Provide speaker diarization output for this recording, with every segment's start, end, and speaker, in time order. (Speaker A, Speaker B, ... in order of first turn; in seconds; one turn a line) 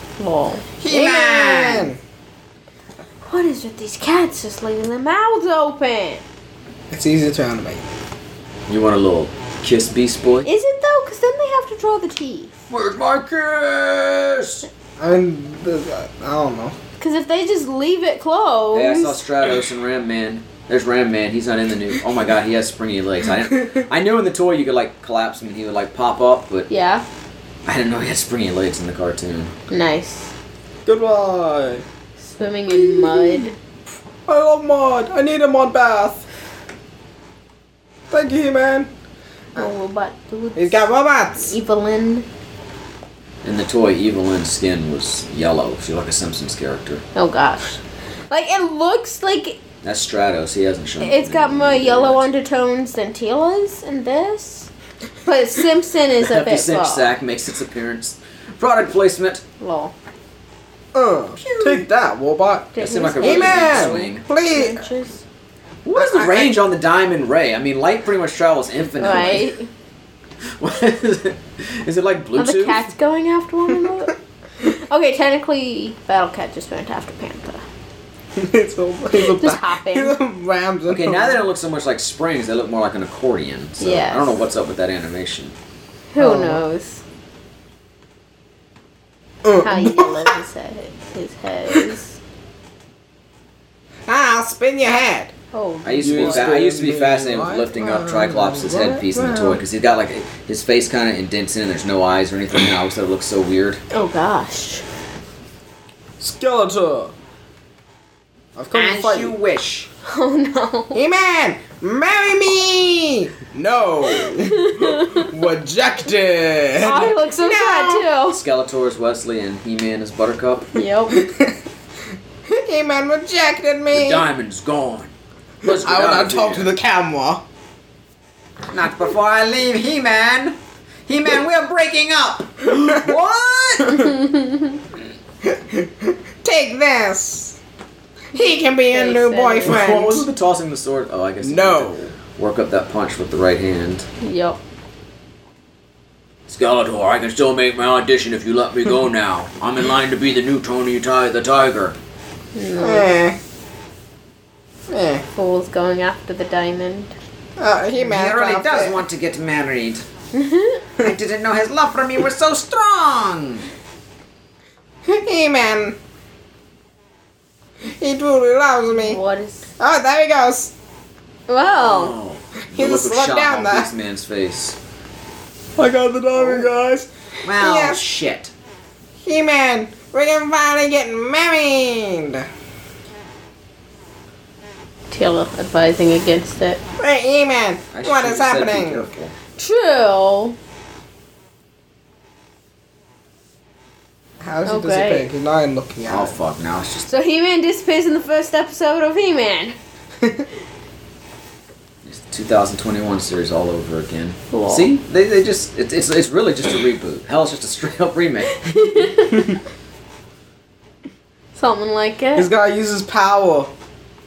Speaker A: 0.2-1.8
Speaker B: 0.8-2.0
Speaker C: 0.9-1.5
Speaker A: 3.2-6.2
Speaker B: 6.9-7.8
Speaker C: 8.7-10.5
Speaker A: 10.4-12.5
Speaker C: 12.7-14.7
Speaker B: 15.0-16.8
Speaker A: 17.0-19.2
Speaker C: 18.7-26.7
Speaker A: 26.7-27.0
Speaker C: 27.6-29.5
Speaker A: 29.7-30.3
Speaker B: 30.8-31.8
Speaker A: 32.2-33.5
Speaker B: 32.7-33.5
Speaker B: 34.3-36.2
Speaker B: 38.1-38.9
Speaker A: 39.5-42.2
Speaker B: 40.5-41.5
Speaker C: 43.4-47.0
Speaker A: 47.1-49.6
Speaker C: 49.8-52.2
Speaker A: 51.0-54.7
Speaker A: 55.2-57.1
Speaker C: 56.2-59.4
Speaker A: 59.6-59.9
Speaker B: 60.9-64.8
Speaker A: 61.4-61.8
Speaker A: 62.7-65.2
Speaker C: 62.8-64.2
Speaker C: 65.8-69.5
Speaker B: 65.9-66.5
Speaker A: 69.0-69.7
Speaker C: 70.6-72.8
Speaker A: 72.4-77.6
Speaker B: 78.3-81.4
Speaker A: 79.1-80.2
Speaker C: 80.9-85.5
Speaker A: 83.8-84.4
Speaker A: 86.1-87.0
Speaker B: 86.2-86.6
Speaker B: 89.4-90.3
Speaker A: 89.6-92.2
Speaker B: 94.1-95.3
Speaker A: 95.5-96.5
Speaker C: 95.8-103.8
Speaker B: 96.0-99.6
Speaker A: 103.9-104.8
Speaker B: 106.2-107.1
Speaker B: 108.5-109.3
Speaker C: 108.7-109.9
Speaker A: 110.0-111.0
Speaker B: 110.9-118.1
Speaker A: 114.2-115.3
Speaker A: 116.8-118.4
Speaker C: 118.3-120.7
Speaker A: 120.7-121.2
Speaker B: 121.1-121.6
Speaker B: 122.5-124.2
Speaker C: 123.9-125.1
Speaker C: 125.6-126.7
Speaker B: 125.6-127.4
Speaker C: 128.7-134.1
Speaker B: 132.7-133.1
Speaker A: 134.0-134.8
Speaker B: 135.4-137.6
Speaker B: 138.3-140.3
Speaker A: 138.3-139.8
Speaker C: 139.6-144.1
Speaker B: 141.4-142.1
Speaker A: 144.2-144.6
Speaker C: 146.5-152.0
Speaker A: 152.5-153.1
Speaker B: 152.8-153.4
Speaker B: 154.9-155.2
Speaker A: 155.3-157.1
Speaker B: 157.6-159.0
Speaker C: 158.0-160.0
Speaker A: 160.3-160.8
Speaker C: 161.0-163.7
Speaker B: 165.0-166.0
Speaker B: 167.8-169.2
Speaker A: 168.9-169.7
Speaker B: 169.8-170.7
Speaker A: 171.5-172.1
Speaker C: 171.6-174.8
Speaker B: 172.7-173.9
Speaker B: 175.8-178.0
Speaker C: 176.3-176.7
Speaker C: 177.4-178.5
Speaker B: 179.2-182.5
Speaker A: 185.1-186.8
Speaker B: 187.0-189.0
Speaker C: 187.9-189.3
Speaker A: 189.6-190.6
Speaker B: 194.4-196.3
Speaker A: 194.7-195.3
Speaker C: 196.1-197.1
Speaker A: 197.1-199.8
Speaker C: 202.0-209.1
Speaker A: 204.5-204.9
Speaker A: 208.5-209.6
Speaker A: 211.5-212.5
Speaker B: 212.3-213.7